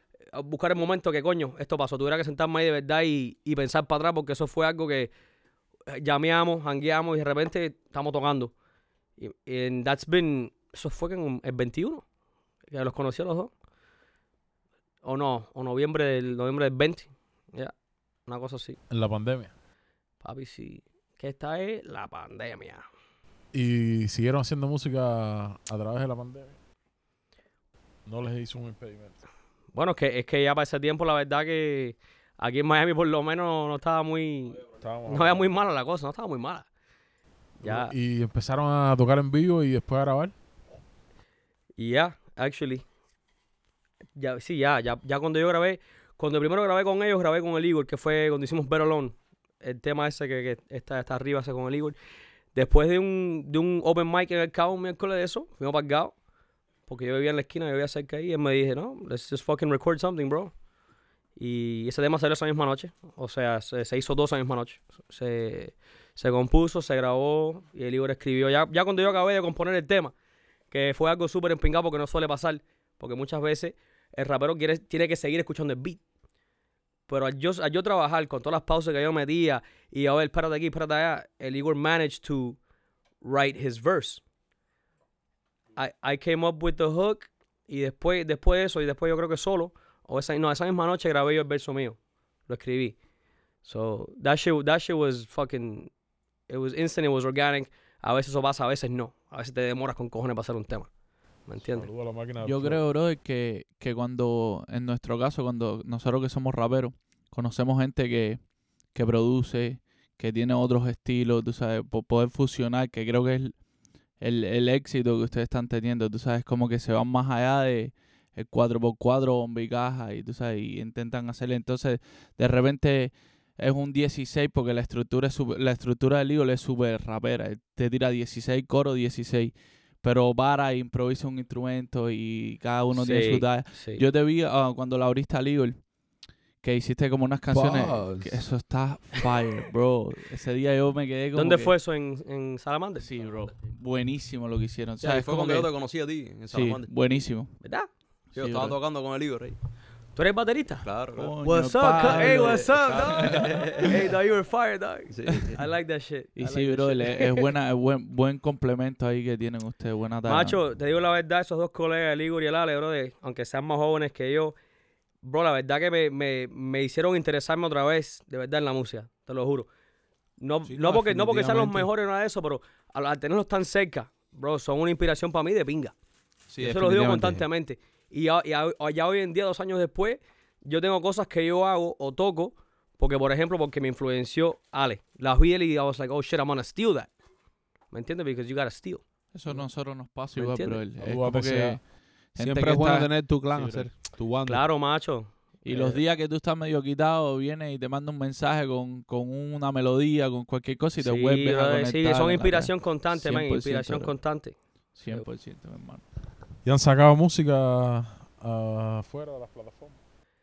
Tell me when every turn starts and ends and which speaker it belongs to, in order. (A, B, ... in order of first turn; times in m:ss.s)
0:00.3-0:05.1 A
0:05.9-0:08.5 A
0:09.2-0:12.0 A
0:12.7-0:13.5 A
0:15.0-0:17.7 A
0:18.3-0:18.8 A
0:18.9-0:19.5 B
0:20.2-0:22.8 A
0:23.5-0:26.6 B
0:28.0-0:29.2 B
0:29.7-0:36.7 A
0:34.8-0:35.5 B
0:37.6-0:37.9 A
0:37.6-0:40.3 B
0:41.8-0:42.8 A
0:44.2-0:52.0 A
0:52.5-0:56.1 A
0:56.9-1:00.5 A
1:01.4-1:10.1 A
1:10.7-1:16.0 A
1:17.1-1:22.6 A
1:23.2-1:24.2 A
1:25.8-1:32.0 A
1:32.5-1:33.0 A
1:33.6-1:35.9 A
1:36.5-1:40.9 A
1:41.5-1:41.9 A
1:41.7-1:42.8 B
1:42.4-1:53.6 C
1:54.2-2:15.9 C
2:12.9-2:14.0 A
2:16.6-2:21.7 C
2:17.5-2:18.3 D
2:21.3-2:23.4 A
2:23.0-2:25.7 C
2:25.0-2:26.9 E
2:26.5-2:27.7 C
2:27.6-2:27.9 A
2:28.3-2:29.6 E
2:28.4-2:28.8 C
2:30.1-2:30.9 A
2:30.8-2:31.3 E
2:31.1-2:33.7 C
2:31.4-2:37.5 A
2:32.0-2:34.0 E
2:35.1-2:35.6 E
2:36.4-2:40.6 C
2:40.2-2:44.6 A
2:45.2-2:49.7 A
2:50.4-2:55.9 A
2:50.7-2:51.9 D
2:56.5-2:57.4 D
2:56.6-3:07.1 A
3:07.9-3:09.0 A
3:09.3-3:13.9 C
3:10.3-3:10.8 A
3:11.0-3:11.8 B
3:12.4-3:14.6 D
3:14.4-3:16.0 A
3:15.6-3:24.1 C
3:21.0-3:24.6 A
3:24.9-3:26.0 C
3:26.6-3:30.0 B